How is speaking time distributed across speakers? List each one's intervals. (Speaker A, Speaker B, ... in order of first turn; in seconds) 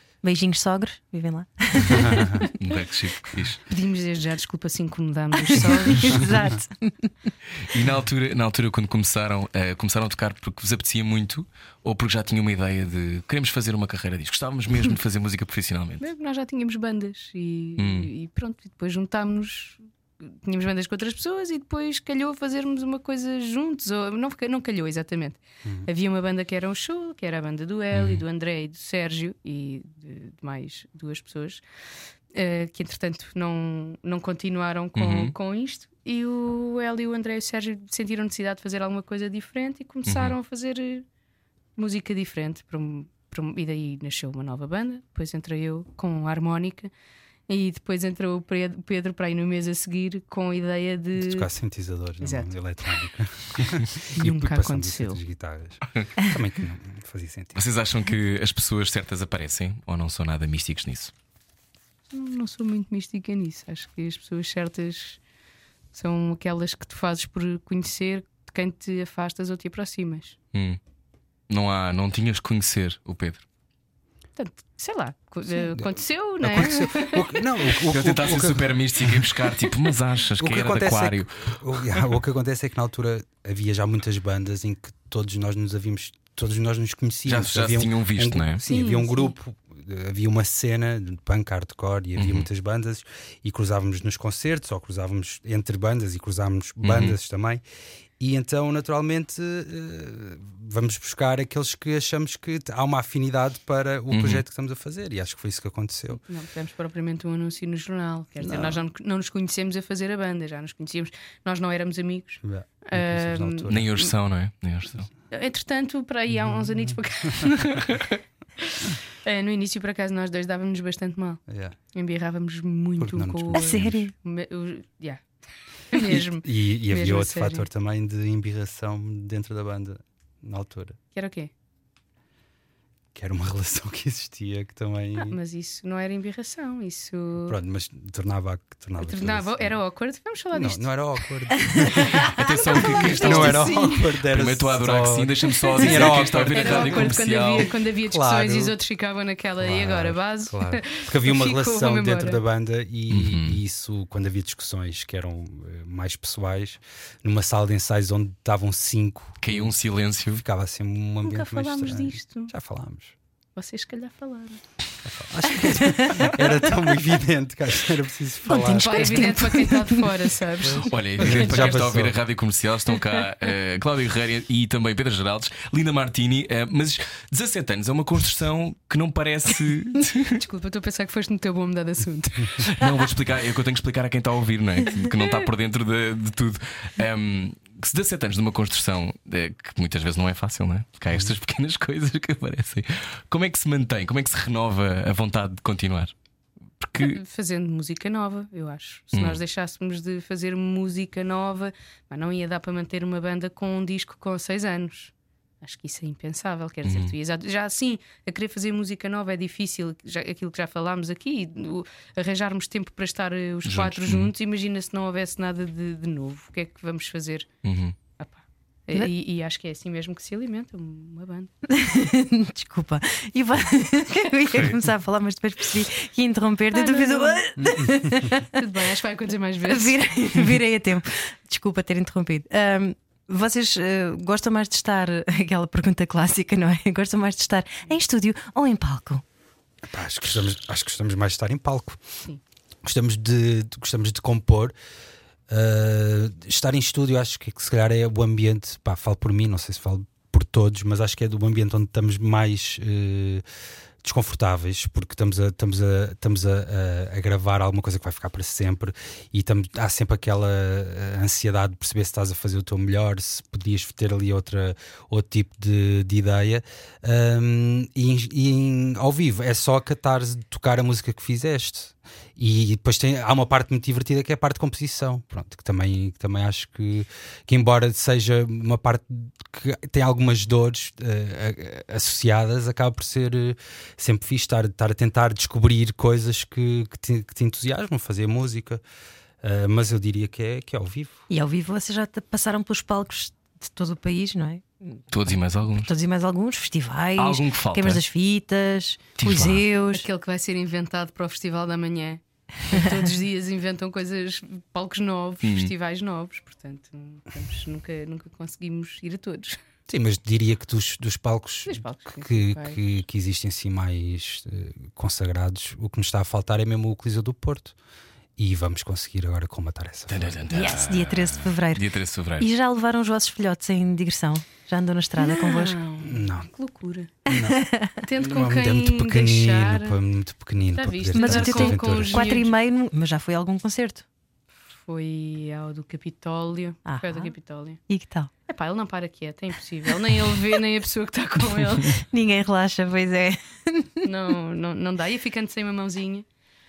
Speaker A: 0.2-2.5, 5.5-7.1, 123.5-124.1, 165.8-166.3, 168.5-170.1, 221.7-228.6, 229.7-239.2, 291.3-295.0, 295.8-300.0, 320.5-321.9, 322.4-325.8, 327.4-328.0, 331.1-334.0, 336.9-337.3, 337.9-338.3, 341.9-344.0
Speaker B: 1.9-2.5, 51.2-57.6, 75.5-79.7, 80.4-97.6, 98.2-106.2, 108.4-108.8, 112.4-113.9, 121.5-121.8, 123.0-124.0, 125.9-131.0, 133.1-135.4, 137.4-139.8, 140.5-148.8, 149.6-159.7, 160.3-163.1, 165.0-169.5, 170.6-172.2, 191.1-191.3, 227.6-228.2, 239.8-242.0, 242.8-244.7, 245.5-253.4, 254.0-288.8, 289.4-291.2, 309.9-317.7, 318.4-320.4, 326.0-326.5, 327.2-327.6, 328.1-332.2
Speaker C: 2.6-3.6, 7.6-16.0, 17.8-18.1, 27.9-28.2, 34.9-35.3, 40.0-40.4, 57.5-61.1, 70.5-70.8, 71.5-73.4, 77.9-82.0, 87.2-88.6, 92.2-92.5, 96.8-97.2, 104.1-104.4, 113.7-115.1, 142.2-147.7, 153.1-153.6, 159.4-160.4, 170.8-180.4, 182.6-196.1, 196.8-197.2, 199.1-199.4, 206.8-207.1, 213.6-214.3, 217.6-217.9, 295.1-295.9, 297.2-298.0, 299.2-299.6, 305.4-305.7, 320.1-322.5
Speaker D: 3.7-6.3, 16.0-31.6, 32.3-41.0, 41.8-46.9, 47.5-51.5, 52.2-52.5, 54.1-55.2, 62.1-65.2, 65.9-70.4, 74.3-77.3, 88.7-89.3, 106.2-113.9, 115.3-118.1, 118.7-121.4, 121.9-125.2, 125.9-127.7, 131.1-131.5, 135.2-137.6, 139.0-140.8, 142.0-144.0, 145.8-152.4, 161.2-162.5, 163.6-164.6, 168.6-171.8, 180.4-182.7, 197.0-217.5, 218.2-221.5, 226.7-227.4, 228.5-230.0, 299.9-309.6, 311.6-312.8, 325.2-327.2, 328.0-330.0, 330.7-332.5, 334.8-337.8, 338.5-342.0, 344.0-346.2